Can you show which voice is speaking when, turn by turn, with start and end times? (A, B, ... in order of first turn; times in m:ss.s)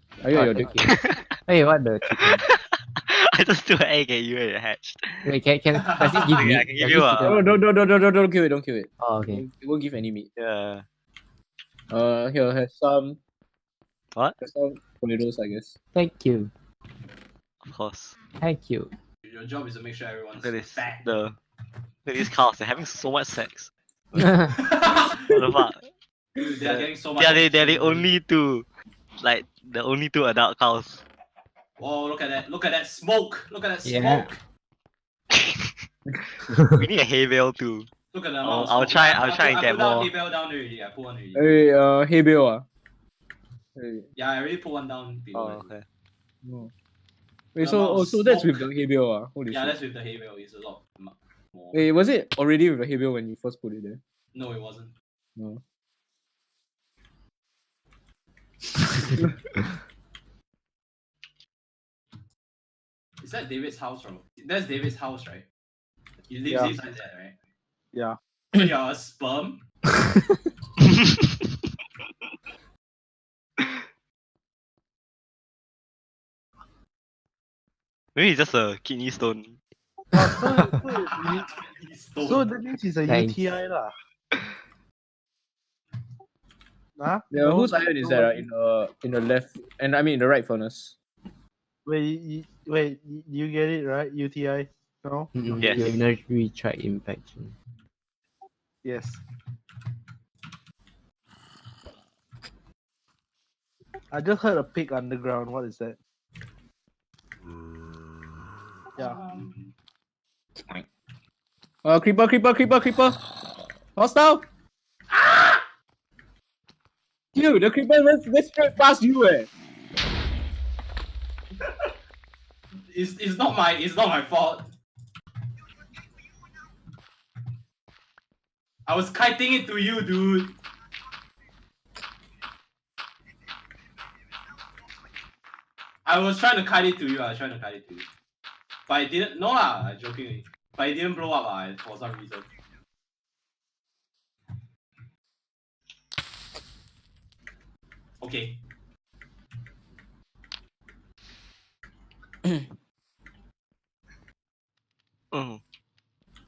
0:00.2-0:00.8 A
0:00.3-0:02.4 B
0:00.8-0:01.3 C
0:02.2-0:05.3 C
0:05.2-0:07.5 B
0:05.8-0:06.5 D
0:06.3-0:07.4 C
0:07.2-0:10.3 A
0:09.0-0:09.4 B
0:10.4-0:10.8 C
0:11.9-0:13.2 A
0:14.4-0:15.8 A
0:16.0-0:16.5 B
0:17.6-0:18.2 C
0:18.4-0:18.9 B
0:19.2-0:21.0 D
0:20.4-0:21.4 C
0:22.1-0:23.7 C
0:24.5-0:25.4 D
0:25.2-0:25.8 C
0:26.4-0:28.1 D
0:26.7-0:28.6 C
0:29.2-0:31.0 C
0:31.8-0:34.4 D
0:33.8-0:34.3 B
0:35.3-0:35.8 C
0:36.5-0:36.8 B
0:36.7-0:37.9 C
0:38.1-0:41.6 D
0:38.4-0:40.1 C
0:41.4-0:42.7 A
0:43.8-0:44.1 A
0:44.2-0:45.7 D
0:45.3-0:45.8 C
0:46.4-0:46.7 A
0:47.6-0:49.8 A
0:47.6-0:48.7 D
0:49.5-0:51.8 D
0:51.7-0:54.0 A
0:54.3-0:54.9 D
0:55.4-0:55.6 A
1:03.2-1:05.4 D
1:06.3-1:07.4 D
1:08.5-1:09.6 D
1:10.8-1:11.1 C
1:18.2-1:19.6 C
1:20.1-1:21.5 E
1:20.9-1:22.5 D
1:22.2-1:23.9 E
1:23.1-1:23.4 B
1:27.0-1:28.4 E
1:27.3-1:31.0 A
1:31.9-1:35.3 E
1:35.4-1:37.6 B
1:35.6-1:36.0 C
1:38.8-1:39.2 E
1:44.1-1:46.0 E
1:49.0-1:49.7 D
1:51.8-1:53.2 A
1:54.0-1:54.5 A
1:55.1-1:55.7 D
1:57.3-1:59.5 A
2:01.6-2:01.9 D
2:02.8-2:04.7 D
2:08.9-2:10.6 D
2:16.0-2:18.1 D
2:18.9-2:22.5 D
2:28.2-2:28.6 D
2:35.3-2:35.6 C